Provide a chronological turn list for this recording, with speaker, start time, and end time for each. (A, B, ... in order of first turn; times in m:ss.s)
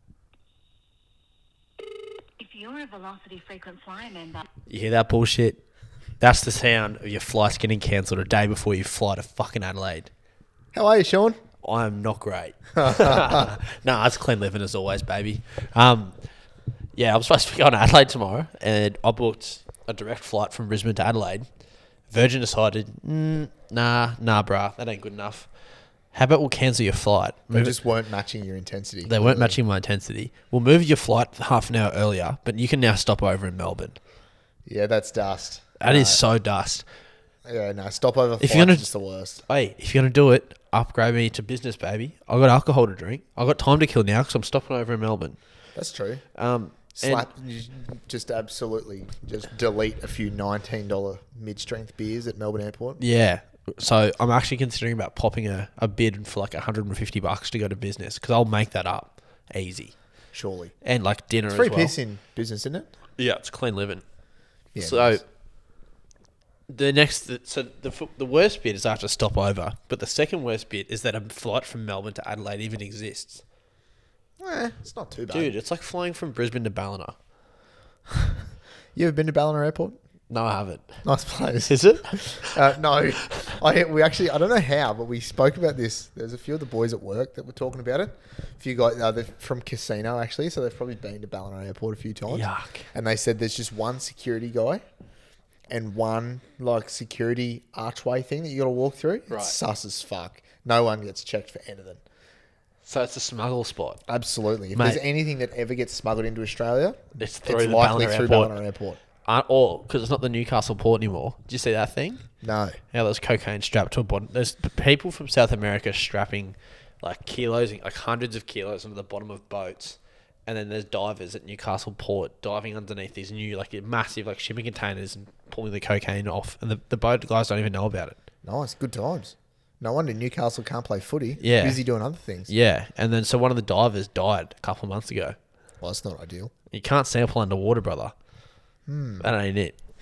0:02.4-0:04.4 A
0:04.7-0:05.6 B
0:06.2-0:10.1 B
0:10.7-0:11.4 C
0:11.6-0:16.2 B
0:12.8-0:13.6 C
0:17.0-0:21.5 B
0:22.1-0:25.5 B
0:26.1-0:27.8 B
0:27.5-0:29.6 C
0:29.0-0:34.0 B
0:34.7-0:36.2 C
0:35.8-0:36.8 B
0:37.5-0:39.4 C
0:38.4-0:38.9 B
0:39.5-0:45.4 B
0:45.8-0:46.2 C
0:46.4-0:47.3 B
0:47.0-0:53.0 C
0:53.0-0:59.9 B
1:00.3-1:00.7 C
1:00.8-1:02.0 B
1:01.5-1:02.9 C
1:03.2-1:04.0 B
1:04.8-1:05.2 C
1:04.8-1:05.2 B
1:06.7-1:13.4 B
1:14.4-1:15.5 C
1:15.3-1:17.2 B
1:19.0-1:20.0 C
1:20.3-1:21.0 B
1:21.0-1:34.8 C
1:21.7-1:22.6 B
1:32.3-1:32.9 B
1:35.7-1:42.0 C
1:39.3-1:39.6 B
1:42.8-1:44.0 B
1:44.1-1:49.0 C
1:44.8-1:45.0 B
1:47.2-1:48.6 B
1:49.2-1:52.3 B
1:52.4-1:52.8 C
1:52.9-2:08.2 B
2:08.4-2:12.5 C
2:11.4-2:11.8 B
2:12.5-2:15.4 B
2:15.8-2:16.5 C
2:16.7-2:18.1 B
2:18.9-2:19.3 C
2:19.2-2:19.8 B